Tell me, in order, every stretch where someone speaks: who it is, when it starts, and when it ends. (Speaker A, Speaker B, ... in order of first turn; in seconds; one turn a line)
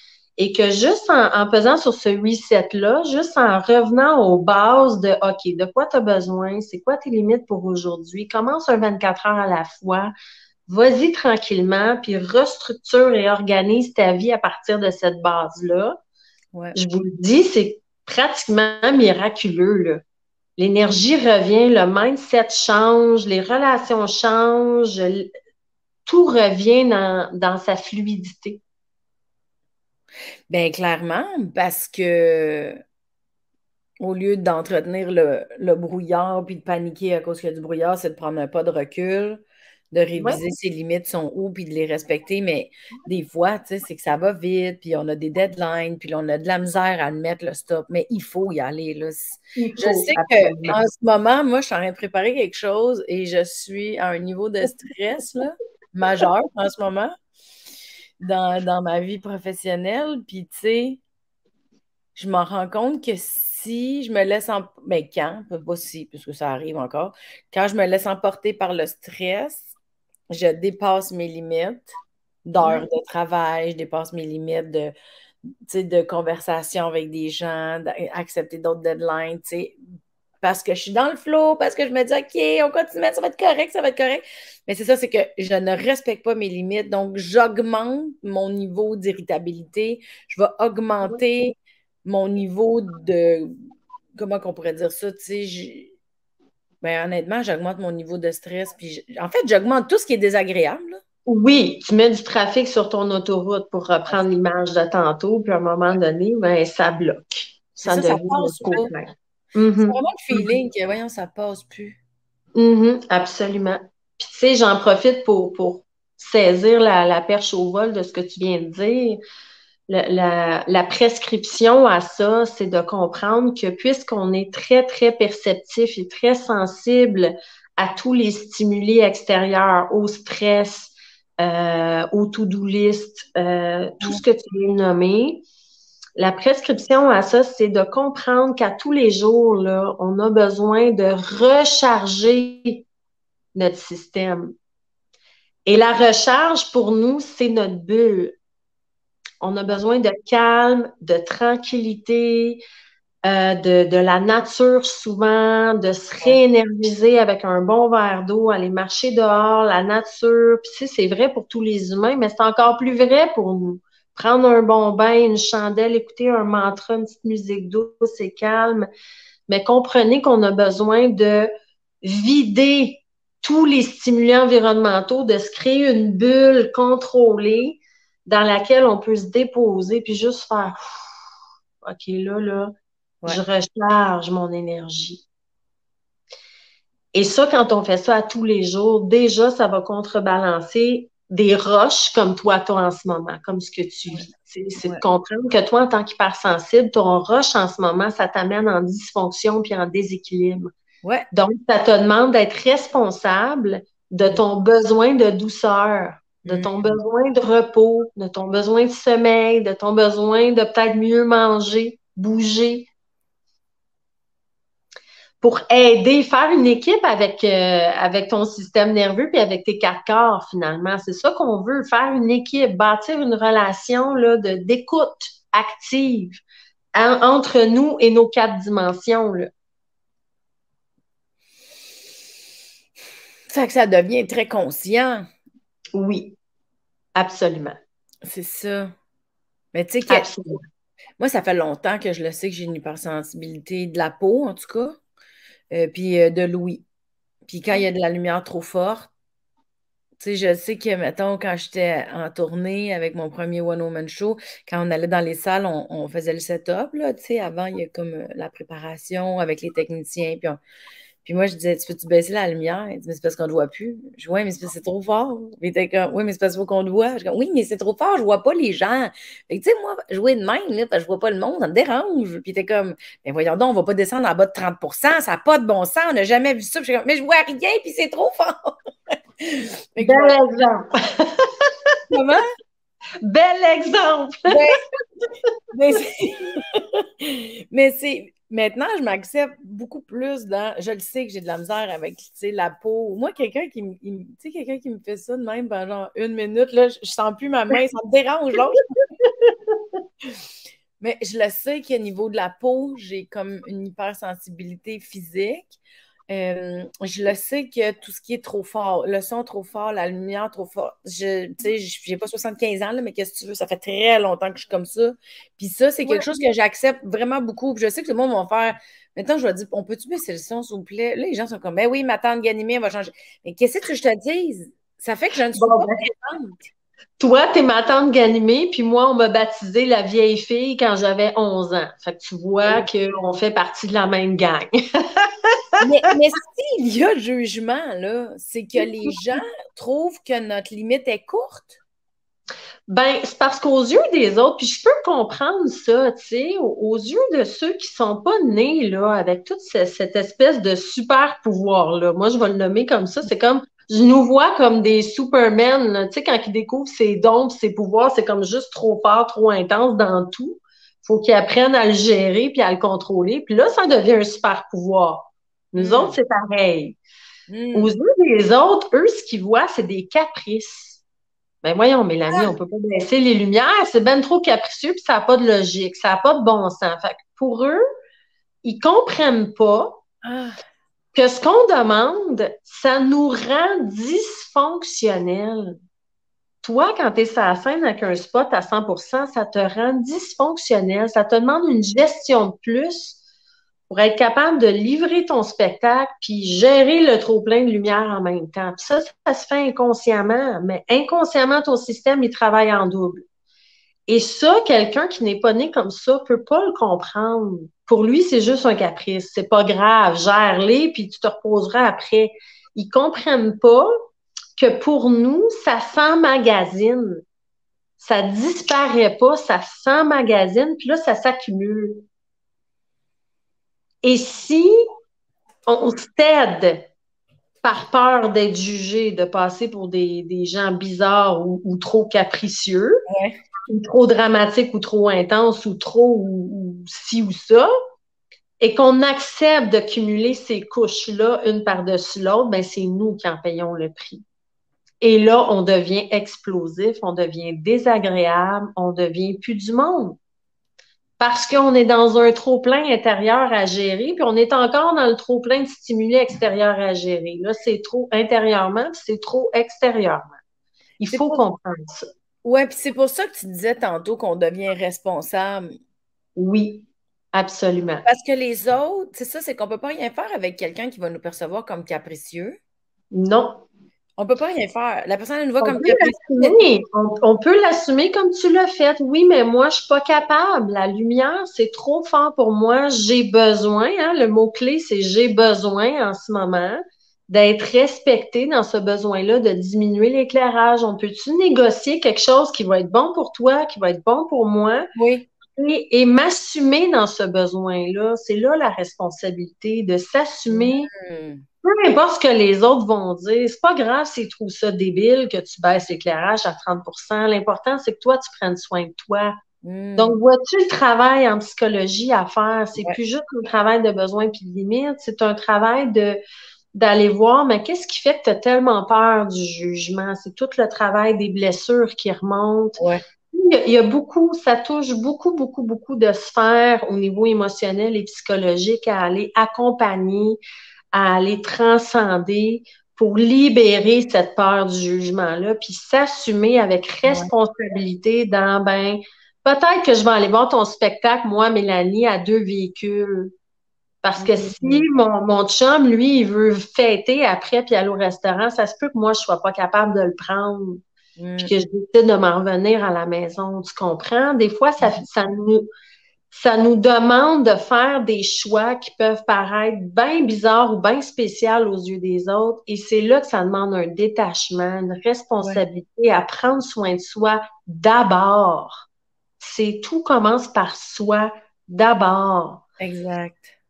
Speaker A: 0.4-10.1
Speaker A: 10.7-15.9
Speaker A: 16.7-20.0
Speaker A: 20.6-25.3
Speaker A: 26.1-28.6
Speaker B: 30.5-32.8
Speaker B: 34.0-57.1
Speaker A: 49.6-50.8
Speaker B: 58.2-61.0
Speaker B: 62.1-69.8
Speaker B: 70.3-71.9
Speaker B: 72.5-74.9
Speaker A: 72.6-72.9
Speaker B: 75.7-79.8
Speaker B: 80.4-93.5
Speaker B: 94.2-95.9
Speaker B: 96.8-101.0
Speaker A: 101.3-110.5
Speaker B: 107.8-108.9
Speaker B: 109.8-112.0
Speaker A: 112.6-119.2
Speaker A: 119.9-135.4
Speaker A: 136.2-142.9
Speaker A: 143.6-144.5
Speaker A: 145.7-148.4
Speaker A: 149.4-152.6
Speaker A: 153.2-168.9
Speaker A: 169.5-171.5
Speaker A: 172.0-181.1
Speaker A: 181.8-182.7
Speaker A: 183.3-185.2
Speaker A: 187.1-200.7
Speaker A: 201.3-212.9
Speaker B: 206.5-207.0
Speaker A: 215.4-226.4
Speaker A: 226.9-229.5
Speaker B: 233.5-235.3
Speaker A: 235.9-236.4
Speaker A: 237.2-237.8
Speaker B: 238.2-238.9
Speaker B: 239.7-240.3
Speaker A: 240.1-240.6
Speaker B: 241.2-245.0
Speaker B: 245.7-246.8
Speaker B: 247.5-249.1
Speaker B: 250.2-260.6
Speaker B: 261.2-278.8
Speaker B: 279.4-280.4
Speaker A: 280.0-281.5
Speaker B: 282.1-282.4
Speaker A: 283.2-284.6
Speaker B: 284.5-284.8
Speaker B: 285.7-299.0
Speaker A: 299.2-299.5
Speaker B: 301.0-305.8
Speaker B: 306.3-326.7
Speaker A: 316.1-316.4
Speaker A: 325.6-326.1
Speaker A: 327.2-335.5
Speaker B: 335.8-341.8
Speaker A: 342.9-367.0
Speaker B: 365.8-366.2
Speaker B: 367.5-368.0
Speaker A: 367.8-371.0
Speaker A: 371.6-377.8
Speaker A: 378.6-380.0
Speaker B: 380.2-380.6
Speaker A: 381.1-385.8
Speaker A: 386.6-393.2
Speaker A: 393.9-403.2
Speaker A: 404.1-413.9
Speaker A: 414.6-417.2
Speaker A: 418.0-422.0
Speaker A: 424.0-424.7
Speaker A: 425.7-426.9
Speaker A: 427.6-433.0
Speaker B: 433.1-433.4
Speaker A: 433.7-437.7
Speaker A: 438.6-444.2
Speaker A: 445.0-450.2
Speaker A: 451.2-460.4
Speaker A: 461.0-462.1
Speaker B: 461.1-461.4
Speaker B: 462.4-465.7
Speaker A: 466.4-468.0
Speaker B: 468.1-472.6
Speaker A: 473.1-473.6
Speaker B: 474.2-476.6
Speaker A: 475.6-494.9
Speaker B: 494.9-495.3
Speaker A: 495.5-500.9
Speaker B: 500.5-501.4
Speaker A: 501.6-509.3
Speaker B: 509.6-510.2
Speaker A: 510.0-516.2
Speaker A: 516.7-522.8
Speaker B: 522.8-523.0
Speaker A: 523.3-530.4
Speaker A: 530.9-543.3
Speaker B: 537.1-537.3
Speaker A: 544.0-550.8
Speaker B: 544.2-544.9
Speaker B: 551.2-551.5
Speaker A: 551.4-555.7
Speaker A: 556.3-568.8
Speaker A: 569.4-572.6
Speaker B: 572.8-573.5